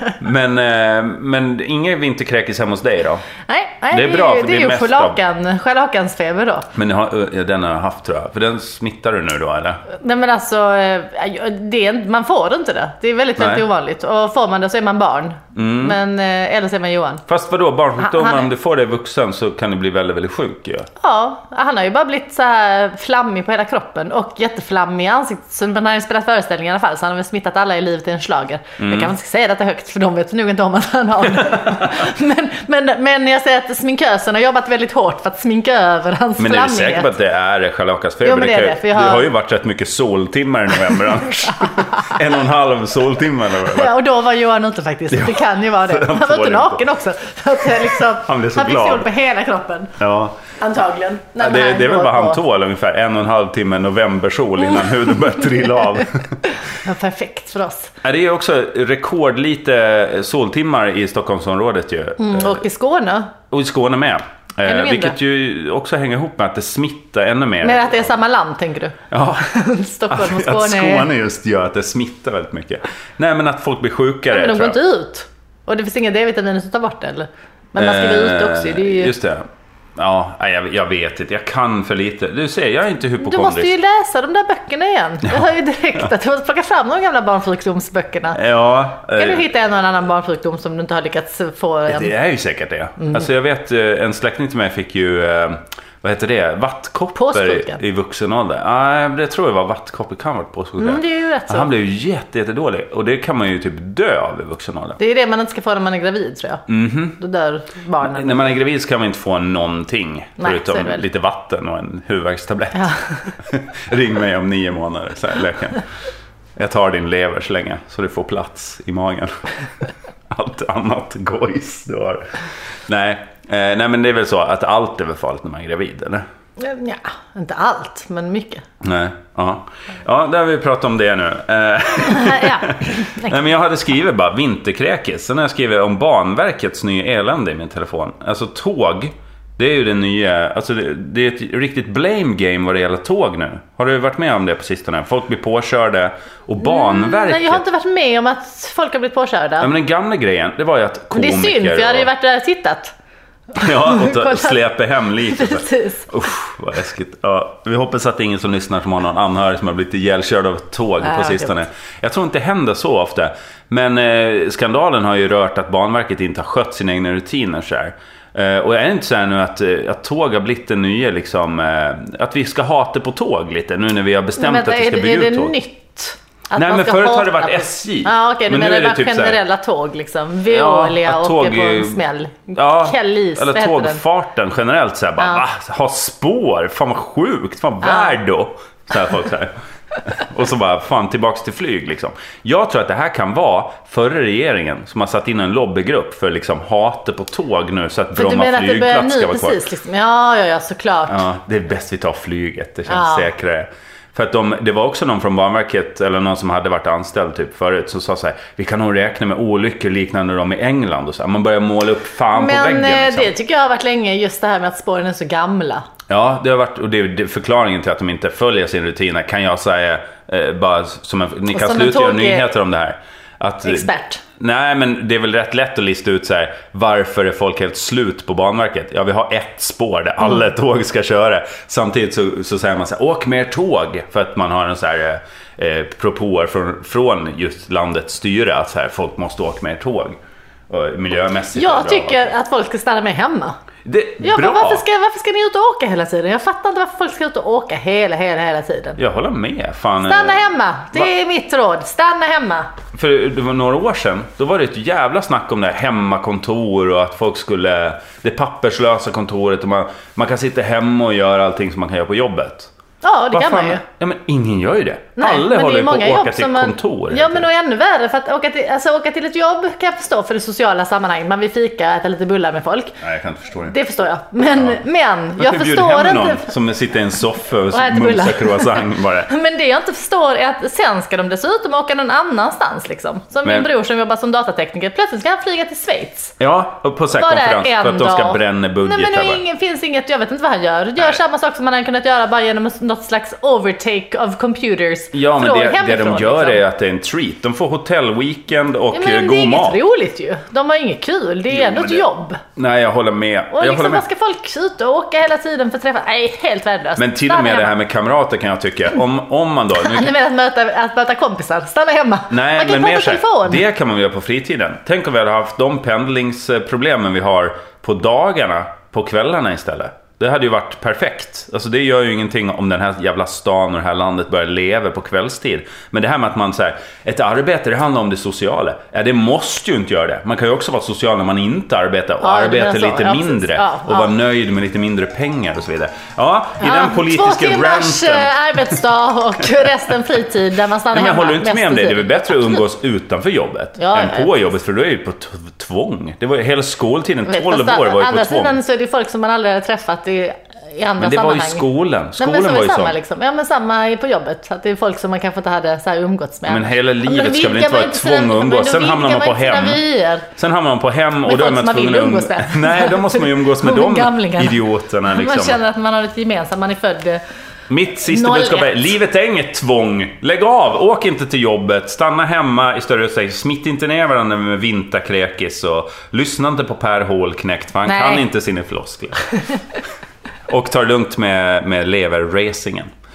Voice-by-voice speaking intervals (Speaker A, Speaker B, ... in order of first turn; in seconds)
Speaker A: 0.2-3.2, 3.9-5.2, 6.7-9.8, 13.4-13.7, 15.5-16.0, 17.3-20.9, 28.8-29.1, 36.4-44.0, 45.1-46.8, 47.6-49.1, 50.0-50.4, 51.4-56.4, 58.0-62.6, 63.5-68.1, 69.1-69.5, 70.1-74.8, 77.8-79.4, 80.0-83.7, 88.3-89.4, 91.9-105.0, 106.7-107.2, 108.0-115.8, 116.5-119.4, 120.3-126.2, 128.8-147.6, 149.6-152.1, 153.5-175.6, 176.5-179.4, 180.5-182.0, 182.5-199.6, 201.1-213.3, 216.1-242.3, 243.8-244.8, 249.0-251.1, 252.9-262.7, 263.3-267.5, 273.0-273.8, 274.5-274.8, 275.4-279.3, 286.4-289.4, 295.1-299.8, 301.5-302.0, 302.6-304.0, 307.0-310.1, 312.3-338.6, 340.9-348.6, 351.0-352.9, 356.5-365.6, 367.7-379.3, 380.5-382.9
Speaker B: 3.5-6.7, 9.9-17.2, 18.0-18.4, 21.0-37.1, 38.2-39.3, 41.9-42.2, 43.7-50.0, 50.6-52.4, 56.5-57.9, 62.2-63.3, 64.7-65.2, 67.6-71.1, 74.3-79.1, 83.2-88.4, 89.2-92.1, 93.0-93.2, 97.1-97.8, 100.8-101.7, 105.0-106.6, 107.2-108.5, 110.4-111.0, 112.7-113.3, 126.6-128.7, 132.1-133.4, 146.6-149.7, 151.1-152.9, 153.5-154.6, 155.2-156.1, 161.0-161.6, 174.4-184.0, 187.8-188.1, 198.1-201.2, 202.9-203.3, 212.3-215.8, 221.5-222.5, 223.6-224.2, 241.5-243.6, 244.2-249.0, 250.0-252.7, 263.0-263.8, 265.2-273.0, 273.7-276.5, 277.7-286.3, 287.1-296.6, 298.9-302.4, 303.5-307.8, 309.8-313.6, 332.2-334.1, 336.6-342.1, 343.8-344.4, 347.2-360.3, 361.2-367.2, 368.0-368.9, 377.8-378.2